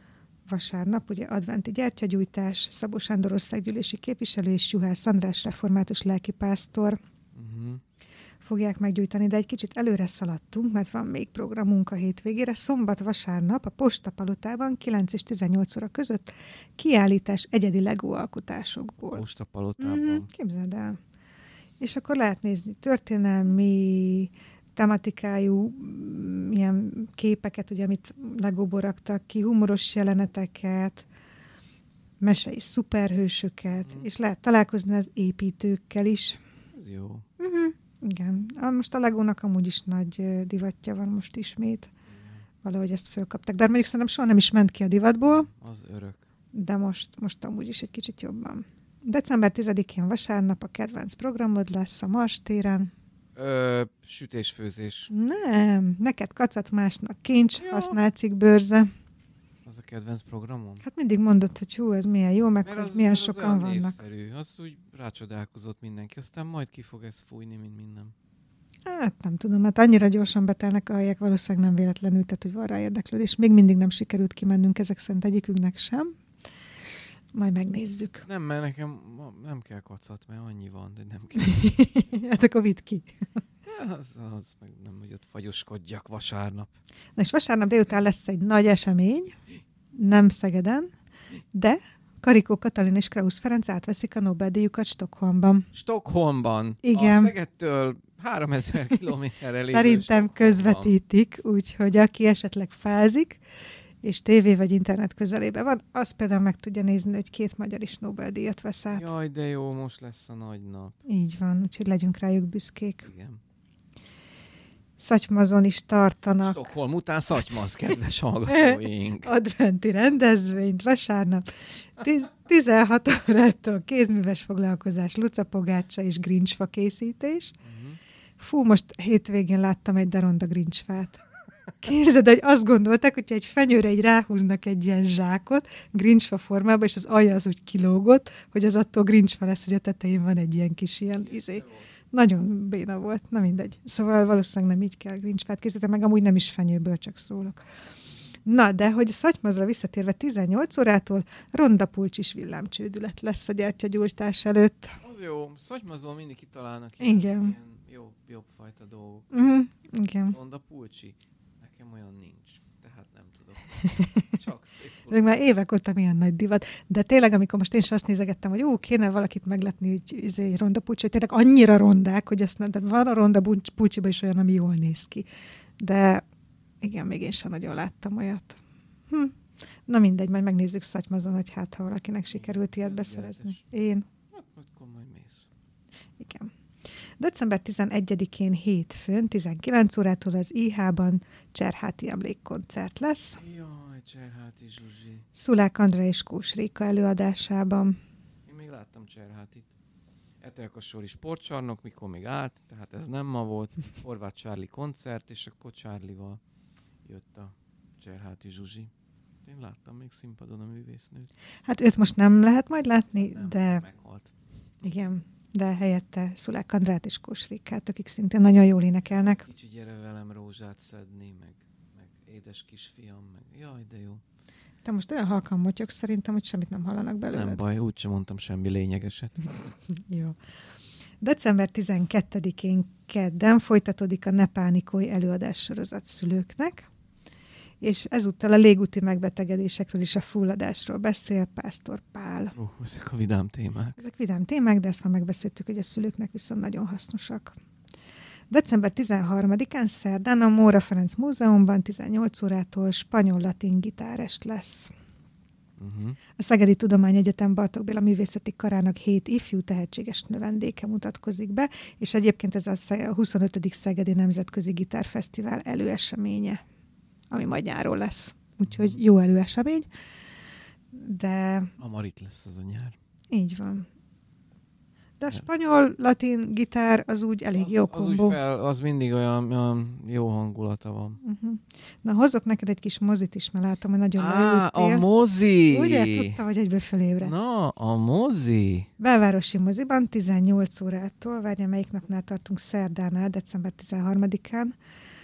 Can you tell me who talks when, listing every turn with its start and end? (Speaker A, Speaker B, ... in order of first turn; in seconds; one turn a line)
Speaker A: 0.5-7.0
Speaker B: 7.3-7.8
Speaker A: 8.4-19.2
Speaker B: 19.1-20.3
Speaker A: 19.8-21.0
Speaker A: 21.8-31.1
Speaker A: 32.2-36.4
Speaker B: 33.7-34.1
Speaker B: 36.7-37.2
Speaker A: 37.4-41.9
Speaker B: 42.1-42.4
Speaker A: 42.6-45.5
Speaker B: 45.2-46.2
Speaker A: 46.5-52.9
Speaker B: 53.4-55.1
Speaker A: 55.1-58.9
Speaker B: 57.6-58.0
Speaker B: 59.6-60.8
Speaker A: 60.8-64.0
Speaker B: 62.6-68.1
Speaker A: 68.8-76.1
Speaker A: 77.3-78.3
Speaker B: 78.2-81.8
Speaker A: 81.3-83.2
Speaker B: 83.6-86.7
Speaker A: 87.2-89.3
Speaker A: 89.9-90.9
Speaker A: 91.5-95.7
Speaker B: 95.7-101.0
Speaker A: 96.8-97.3
Speaker A: 99.6-103.4
Speaker A: 104.0-109.1
Speaker B: 108.9-110.9
Speaker A: 111.0-113.1
Speaker B: 113.0-113.4
Speaker A: 115.0-116.7
Speaker B: 116.4-119.3
Speaker A: 118.5-121.5
Speaker A: 122.0-127.5
Speaker B: 127.6-128.0
Speaker A: 128.4-131.2
Speaker A: 131.8-147.6
Speaker B: 141.1-141.8
Speaker A: 148.4-155.0
Speaker B: 155.0-159.3
Speaker A: 157.0-157.6
Speaker A: 159.3-160.3
Speaker B: 160.3-165.4
Speaker A: 163.8-164.3
Speaker A: 165.1-175.3
Speaker A: 175.8-176.2
Speaker A: 176.8-178.6
Speaker A: 179.1-179.3
Speaker A: 179.9-184.1
Speaker B: 182.3-183.6
Speaker B: 184.3-185.5
Speaker A: 186.2-186.5
Speaker A: 187.2-193.4
Speaker B: 193.4-195.2
Speaker A: 195.3-198.0
Speaker B: 198.4-199.7
Speaker B: 200.4-206.4
Speaker B: 207.0-208.9
Speaker B: 209.4-211.3
Speaker A: 211.7-213.8
Speaker B: 213.1-214.3
Speaker A: 214.8-219.4
Speaker B: 219.1-224.2
Speaker A: 224.8-227.6
Speaker B: 227.3-229.5
Speaker A: 230.0-230.4
Speaker A: 231.2-236.9
Speaker A: 237.8-242.5
Speaker B: 242.5-244.0
Speaker A: 244.0-247.6
Speaker A: 248.5-254.9
Speaker B: 255.8-256.2
Speaker A: 256.4-266.6
Speaker A: 267.3-269.9
Speaker B: 268.6-269.0
Speaker A: 270.9-271.7
Speaker B: 271.8-272.9
Speaker A: 273.3-273.9
Speaker A: 275.2-278.4
Speaker B: 277.6-281.2
Speaker A: 281.2-285.1
Speaker B: 284.2-286.4
Speaker A: 285.7-287.4
Speaker B: 287.2-288.9
Speaker A: 289.0-294.7